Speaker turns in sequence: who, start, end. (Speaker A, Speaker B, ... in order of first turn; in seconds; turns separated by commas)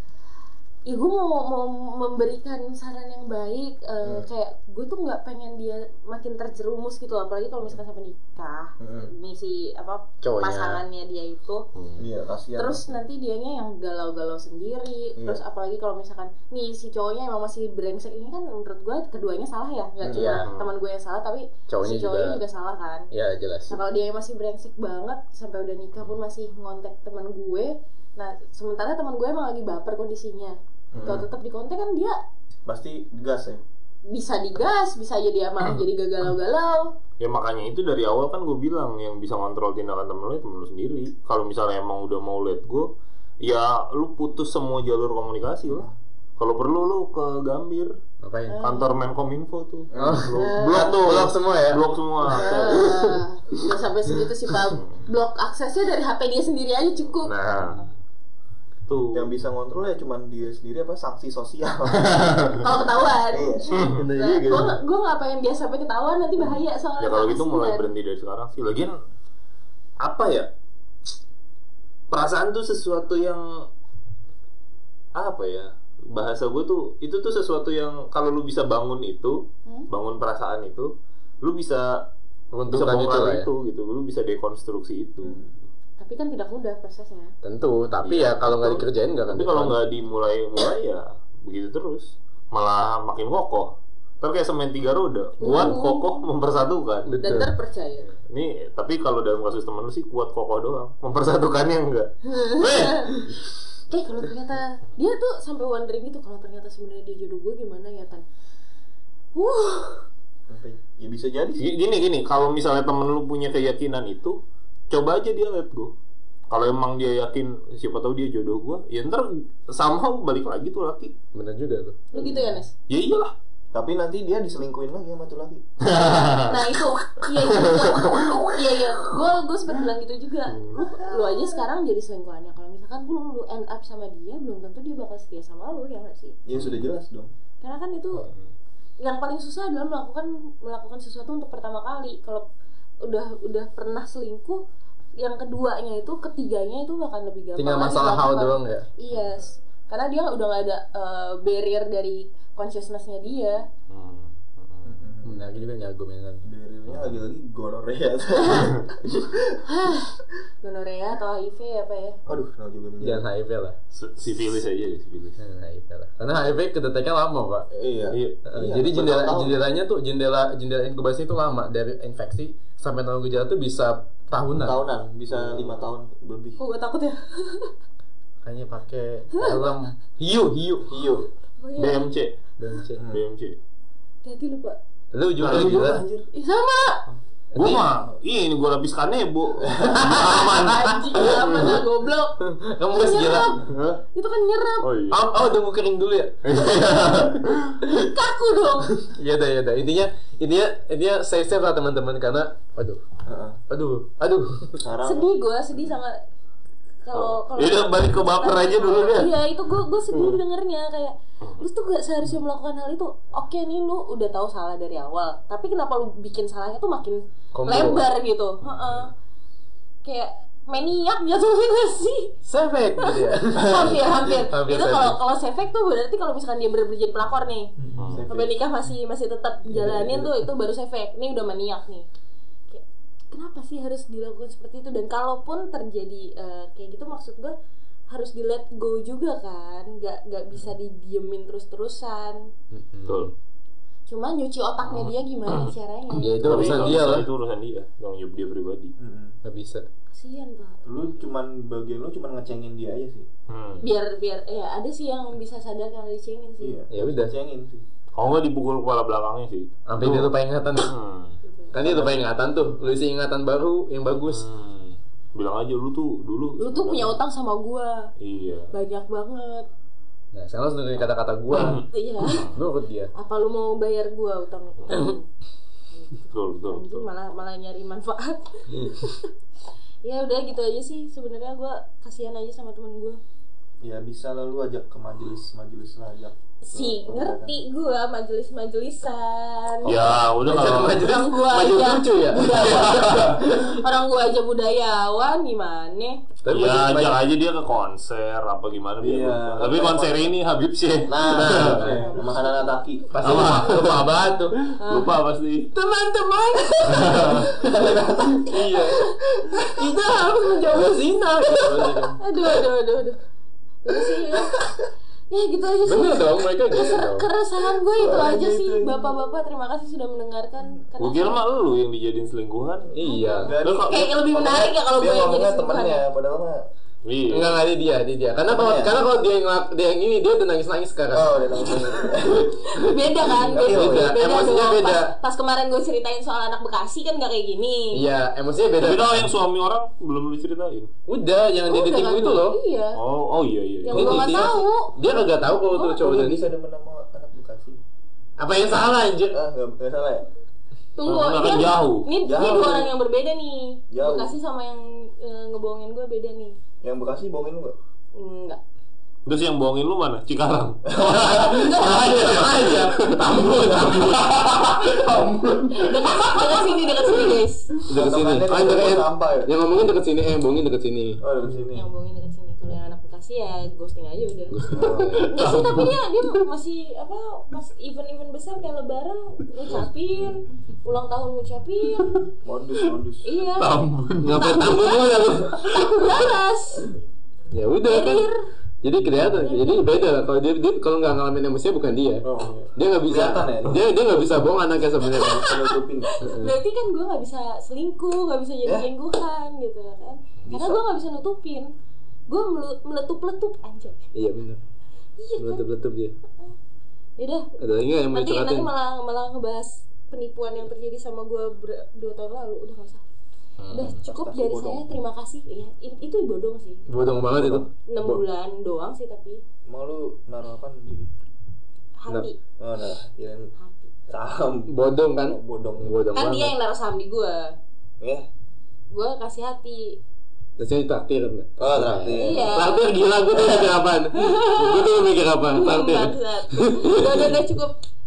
Speaker A: 0.9-11.7, Speaker B: 8.8-9.1, Speaker C: 10.2-10.8, Speaker D: 11.8-12.0, Speaker B: 12.0-13.0, Speaker A: 12.6-23.1, Speaker B: 20.0-20.4, Speaker C: 20.1-20.5, Speaker D: 20.4-20.7, Speaker C: 21.7-22.4, Speaker C: 23.1-23.8, Speaker A: 23.7-32.2, Speaker B: 30.9-31.3, Speaker B: 32.7-33.6, Speaker A: 34.1-36.9, Speaker D: 37.2-48.0, Speaker C: 48.2-48.7, Speaker A: 48.5-49.0, Speaker D: 48.6-52.9, Speaker B: 49.9-50.2, Speaker C: 49.9-51.9, Speaker A: 50.4-51.0, Speaker A: 52.3-57.3, Speaker C: 52.8-53.2, Speaker D: 57.2-57.9, Speaker D: 58.9-59.3, Speaker B: 59.1-62.6, Speaker D: 62.0-62.6, Speaker A: 62.6-67.9, Speaker B: 63.2-63.7, Speaker D: 63.7-64.7, Speaker C: 64.0-64.8, Speaker D: 67.0-69.0, Speaker D: 70.0-70.5, Speaker D: 72.1-73.5, Speaker D: 75.1-82.1, Speaker C: 82.5-83.5, Speaker D: 82.7-85.5, Speaker B: 85.2-85.5, Speaker A: 86.0-87.3, Speaker C: 87.4-89.8, Speaker D: 88.0-97.4, Speaker A: 95.4-96.1, Speaker C: 97.1-97.5, Speaker A: 97.2-98.1, Speaker D: 98.1-103.3, Speaker A: 102.2-103.3, Speaker A: 103.9-108.2, Speaker A: 109.3-110.1, Speaker B: 110.5-111.7, Speaker D: 111.6-114.4, Speaker D: 114.9-115.9, Speaker D: 116.5-121.1, Speaker C: 121.3-122.1, Speaker A: 122.1-122.7, Speaker B: 122.2-122.5, Speaker D: 122.9-123.3, Speaker B: 123.7-125.6, Speaker D: 125.8-126.7, Speaker A: 126.5-136.4, Speaker D: 127.3-129.2, Speaker D: 130.5-130.8, Speaker B: 136.5-137.3, Speaker D: 136.5-136.9, Speaker A: 137.6-138.3, Speaker D: 138.1-138.5, Speaker A: 139.0-142.5, Speaker A: 143.0-144.6, Speaker A: 145.2-153.7, Speaker C: 147.6-148.8, Speaker D: 153.9-154.9, Speaker B: 154.8-155.5, Speaker C: 155.2-156.5, Speaker B: 156.4-159.6, Speaker D: 156.9-157.2, Speaker A: 159.7-162.2, Speaker B: 162.3-163.3, Speaker C: 163.0-163.8, Speaker D: 163.9-165.4, Speaker C: 165.4-167.7, Speaker B: 167.7-169.6, Speaker D: 168.1-168.4, Speaker C: 168.4-174.8, Speaker B: 174.6-176.6, Speaker D: 175.3-175.8, Speaker A: 176.6-177.7, Speaker C: 178.4-181.0, Speaker A: 179.3-179.7, Speaker B: 180.9-181.3, Speaker A: 181.6-182.1, Speaker D: 181.8-182.4, Speaker C: 182.6-183.0, Speaker B: 183.0-183.2, Speaker D: 183.0-183.6, Speaker A: 184.2-184.8, Speaker C: 185.1-186.1, Speaker D: 185.4-186.3, Speaker A: 186.3-187.0, Speaker C: 187.5-187.9, Speaker D: 187.6-191.8, Speaker B: 189.7-190.1, Speaker C: 190.0-190.9, Speaker A: 190.4-192.4, Speaker C: 192.4-193.6, Speaker A: 192.9-194.9, Speaker D: 193.7-194.0, Speaker D: 194.8-195.3, Speaker C: 195.1-197.2, Speaker D: 196.4-197.8, Speaker A: 197.9-199.0, Speaker C: 199.0-203.0, Speaker B: 203.3-203.6, Speaker C: 203.7-204.8, Speaker B: 204.8-205.9, Speaker A: 205.0-206.2, Speaker A: 207.0-219.1, Speaker D: 207.1-209.3, Speaker D: 210.1-210.4, Speaker C: 217.5-218.1, Speaker D: 218.6-219.1, Speaker A: 220.0-222.3, Speaker C: 222.4-225.2, Speaker A: 223.0-232.1, Speaker D: 228.0-228.2, Speaker B: 228.1-228.6, Speaker C: 229.8-230.1, Speaker A: 232.7-237.6, Speaker A: 238.1-242.4, Speaker C: 242.7-243.3, Speaker D: 243.1-243.3, Speaker A: 244.1-247.1, Speaker D: 244.8-245.7, Speaker C: 246.1-247.3, Speaker D: 246.4-248.9, Speaker B: 249.0-249.4, Speaker C: 249.4-249.9, Speaker A: 250.1-250.9, Speaker B: 250.9-253.3, Speaker D: 253.5-253.8, Speaker A: 253.8-256.8, Speaker B: 256.6-257.8, Speaker C: 256.9-257.4, Speaker D: 258.1-261.4, Speaker C: 259.9-260.9, Speaker C: 261.7-264.5, Speaker B: 261.8-262.2, Speaker D: 264.3-267.2, Speaker A: 266.6-268.1, Speaker D: 268.2-268.7, Speaker A: 268.7-269.7, Speaker C: 270.3-273.1, Speaker D: 271.5-272.5, Speaker A: 271.9-272.5, Speaker A: 273.1-275.3, Speaker A: 275.9-279.3, Speaker D: 276.3-277.1, Speaker A: 280.0-283.2, Speaker B: 283.8-287.5, Speaker A: 286.6-296.2, Speaker D: 289.9-291.0, Speaker C: 289.9-293.8, Speaker D: 292.5-293.4, Speaker C: 296.4-297.2, Speaker D: 296.5-302.0, Speaker B: 299.0-300.3, Speaker B: 301.1-303.2, Speaker C: 301.1-302.1, Speaker A: 301.8-303.6, Speaker C: 303.1-304.6, Speaker D: 303.2-304.1, Speaker D: 304.6-305.7, Speaker A: 304.8-305.2, Speaker C: 305.7-312.2, Speaker D: 306.8-307.5, Speaker B: 307.6-308.5, Speaker A: 308.7-309.7, Speaker A: 312.2-313.2, Speaker A: 313.8-314.7, Speaker A: 315.3-321.4, Speaker C: 315.9-317.3, Speaker B: 318.0-319.1, Speaker D: 321.0-322.9, Speaker C: 322.9-323.6, Speaker A: 323.0-326.0, Speaker B: 323.4-326.7, Speaker D: 327.0-327.6, Speaker C: 327.3-335.2, Speaker B: 328.5-329.0, Speaker B: 331.1-332.6, Speaker D: 332.3-332.5, Speaker A: 332.7-338.1, Speaker B: 333.4-334.1, Speaker C: 337.9-339.3, Speaker D: 338.8-340.9, Speaker C: 341.1-342.6, Speaker A: 341.7-343.0, Speaker D: 343.0-344.3, Speaker A: 343.9-345.0, Speaker C: 343.9-346.5, Speaker A: 345.7-346.0, Speaker B: 345.8-347.8, Speaker C: 348.4-349.4, Speaker B: 349.3-350.3, Speaker A: 351.0-356.6, Speaker D: 351.1-352.1, Speaker B: 352.2-352.9, Speaker B: 353.9-354.4, Speaker B: 356.8-357.8, Speaker A: 358.2-358.6, Speaker D: 359.3-366.5, Speaker B: 360.9-361.6, Speaker C: 361.3-364.4, Speaker A: 361.5-362.6, Speaker A: 364.6-365.0, Speaker A: 365.7-367.7, Speaker C: 367.9-371.6, Speaker B: 367.9-369.5, Speaker B: 371.2-371.9, Speaker A: 371.7-382.3, Speaker C: 374.5-375.7, Speaker B: 374.7-375.3, Speaker D: 375.3-375.9, Speaker B: 382.4-383.3, Speaker A: 383.2-383.8, Speaker D: 383.6-384.7, Speaker C: 384.2-386.3, Speaker A: 384.3-386.9, Speaker C: 387.5-388.3, Speaker A: 387.9-388.5, Speaker C: 388.8-396.6, Speaker A: 389.1-390.0, Speaker B: 392.2-393.9, Speaker B: 395.1-396.1, Speaker A: 395.2-395.5, Speaker A: 396.1-401.7, Speaker B: 398.6-398.9, Speaker B: 400.4-400.8, Speaker A: 402.3-404.0, Speaker C: 404.1-404.6, Speaker A: 405.2-405.6, Speaker C: 405.4-406.1, Speaker A: 407.2-407.5, Speaker C: 407.6-408.7, Speaker A: 408.1-413.0, Speaker D: 413.6-414.0, Speaker A: 413.7-416.9, Speaker B: 413.8-414.9, Speaker C: 416.9-418.2, Speaker B: 417.1-417.7, Speaker A: 417.9-419.4, Speaker B: 419.7-421.1, Speaker A: 422.0-422.4, Speaker B: 422.6-423.5, Speaker A: 423.6-423.9, Speaker B: 424.1-426.1, Speaker C: 424.7-426.6, Speaker A: 426.1-427.6, Speaker B: 428.0-428.3, Speaker A: 428.9-430.0, Speaker C: 430.6-437.4, Speaker B: 431.6-432.5, Speaker A: 432.2-437.8